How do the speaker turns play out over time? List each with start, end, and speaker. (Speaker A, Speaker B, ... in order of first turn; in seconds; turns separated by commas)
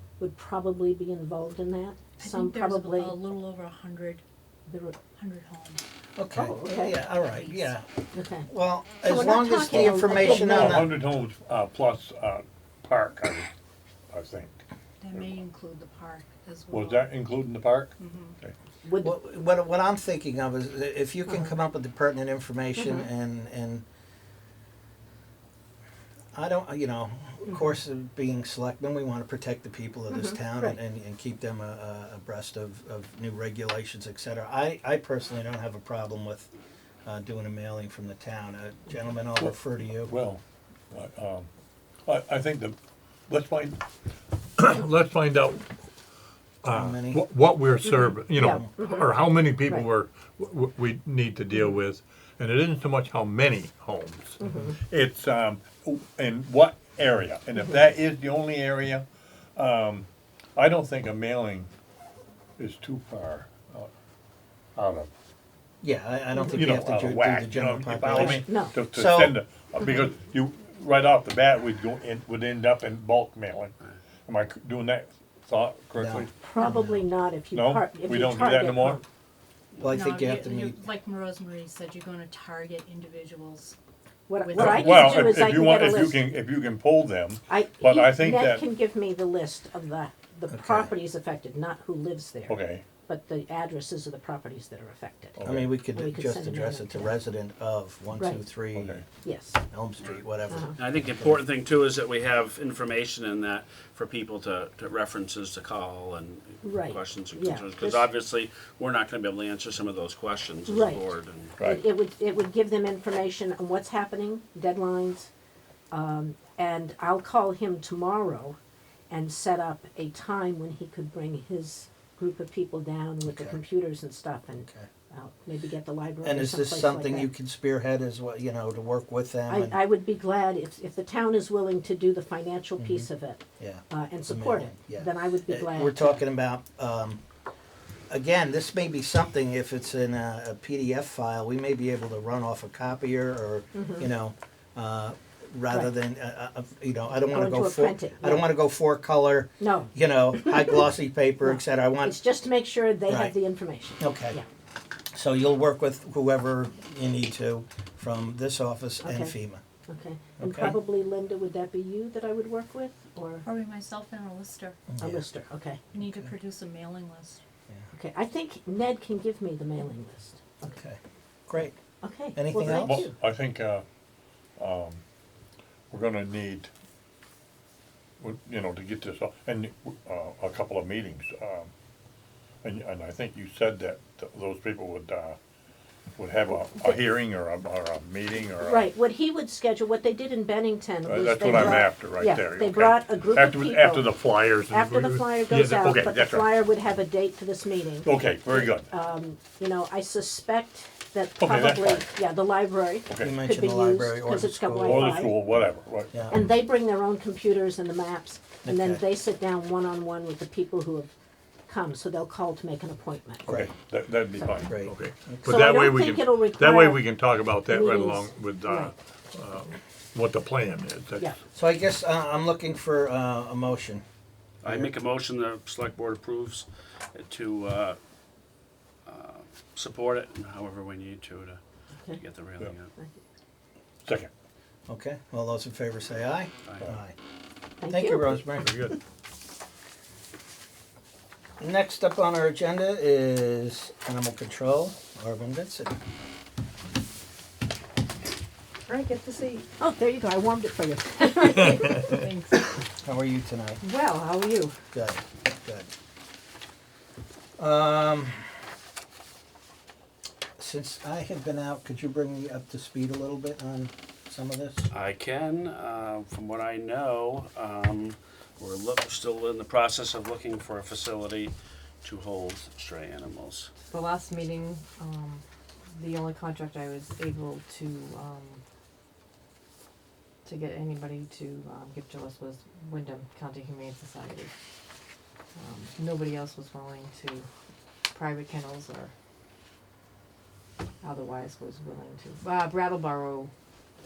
Speaker A: 0.2-3.1, Speaker B: 2.2-4.2, Speaker A: 4.7-5.0, Speaker B: 5.1-5.8, Speaker C: 6.2-7.9, Speaker A: 6.3-7.0, Speaker B: 7.2-7.7, Speaker A: 8.1-8.5, Speaker C: 8.4-10.9, Speaker A: 9.0-10.8, Speaker D: 10.3-13.5, Speaker D: 14.1-14.6, Speaker B: 15.0-17.1, Speaker D: 15.1-15.4, Speaker D: 16.7-18.5, Speaker B: 18.0-18.3, Speaker A: 18.8-19.1, Speaker C: 19.0-23.8, Speaker A: 22.8-23.1, Speaker C: 26.3-36.5, Speaker A: 30.1-30.8, Speaker C: 37.0-40.1, Speaker D: 39.4-41.5, Speaker D: 42.0-42.8, Speaker D: 43.3-43.8, Speaker D: 44.6-45.7, Speaker D: 46.6-59.0, Speaker C: 46.7-47.2, Speaker A: 48.3-49.1, Speaker A: 54.4-54.8, Speaker D: 59.6-61.7, Speaker D: 62.6-63.9, Speaker D: 64.8-65.1, Speaker C: 65.8-69.4, Speaker D: 66.4-73.7, Speaker A: 68.2-68.7, Speaker D: 74.2-76.3, Speaker C: 76.0-77.1, Speaker A: 76.4-79.0, Speaker D: 77.5-79.0, Speaker C: 79.8-80.8, Speaker B: 79.8-83.8, Speaker A: 84.3-86.2, Speaker B: 84.4-85.3, Speaker D: 84.5-88.6, Speaker A: 87.5-95.4, Speaker C: 90.5-90.9, Speaker D: 92.5-92.8, Speaker D: 95.4-95.8, Speaker C: 95.4-99.0, Speaker A: 95.9-97.1, Speaker A: 98.1-98.4, Speaker D: 98.7-99.0, Speaker A: 99.2-99.6, Speaker C: 99.7-101.4, Speaker A: 100.5-100.7, Speaker E: 100.8-111.5, Speaker A: 106.6-108.1, Speaker A: 110.7-111.0, Speaker D: 111.6-111.8, Speaker A: 111.6-115.3, Speaker A: 115.9-118.6, Speaker A: 119.1-127.3, Speaker C: 123.3-123.6, Speaker C: 126.2-129.8, Speaker A: 129.5-136.2, Speaker C: 132.8-133.1, Speaker C: 133.6-137.2, Speaker C: 138.1-152.2, Speaker A: 143.7-144.1, Speaker A: 147.2-148.4, Speaker A: 149.6-150.8, Speaker A: 151.4-154.4, Speaker C: 153.1-153.3, Speaker C: 154.0-154.4, Speaker C: 155.1-159.6, Speaker A: 159.0-159.3, Speaker A: 159.9-163.4, Speaker C: 160.4-160.8, Speaker B: 163.4-164.8, Speaker C: 164.9-165.2, Speaker A: 165.0-165.8, Speaker B: 165.9-167.4, Speaker C: 165.9-166.3, Speaker A: 167.9-170.7, Speaker C: 170.6-171.8, Speaker A: 172.0-173.1, Speaker C: 172.3-173.1, Speaker D: 172.5-173.8, Speaker D: 174.6-175.0, Speaker D: 175.9-176.7, Speaker D: 178.2-181.7, Speaker D: 182.6-185.4, Speaker D: 186.2-188.9, Speaker A: 188.6-194.1, Speaker D: 191.0-196.5, Speaker A: 194.7-205.4, Speaker D: 198.0-198.9, Speaker D: 201.4-202.1, Speaker D: 203.1-203.3, Speaker C: 203.2-205.2, Speaker D: 204.8-206.1, Speaker C: 206.1-206.4, Speaker A: 206.3-211.1, Speaker C: 208.6-209.0, Speaker A: 211.7-213.5, Speaker D: 213.5-221.3, Speaker A: 214.3-214.7, Speaker C: 214.7-215.5, Speaker A: 215.4-217.0, Speaker A: 217.7-218.9, Speaker C: 221.5-224.0, Speaker E: 224.6-228.0, Speaker C: 224.6-224.9, Speaker E: 229.1-231.6, Speaker A: 231.9-232.2, Speaker E: 232.2-232.9, Speaker D: 234.0-234.3, Speaker C: 234.9-237.1, Speaker A: 237.8-238.4, Speaker C: 237.9-238.7, Speaker D: 238.6-239.0, Speaker C: 241.6-246.0, Speaker F: 248.9-249.7, Speaker A: 249.8-252.2, Speaker F: 252.1-252.6, Speaker C: 253.0-253.8, Speaker F: 253.8-254.8, Speaker C: 254.9-255.9, Speaker C: 257.6-258.4, Speaker C: 260.6-264.9, Speaker E: 264.9-273.7, Speaker F: 273.9-275.4, Speaker F: 275.9-278.6, Speaker F: 280.4-284.5, Speaker F: 285.6-287.5, Speaker F: 288.1-289.1, Speaker F: 291.0-293.5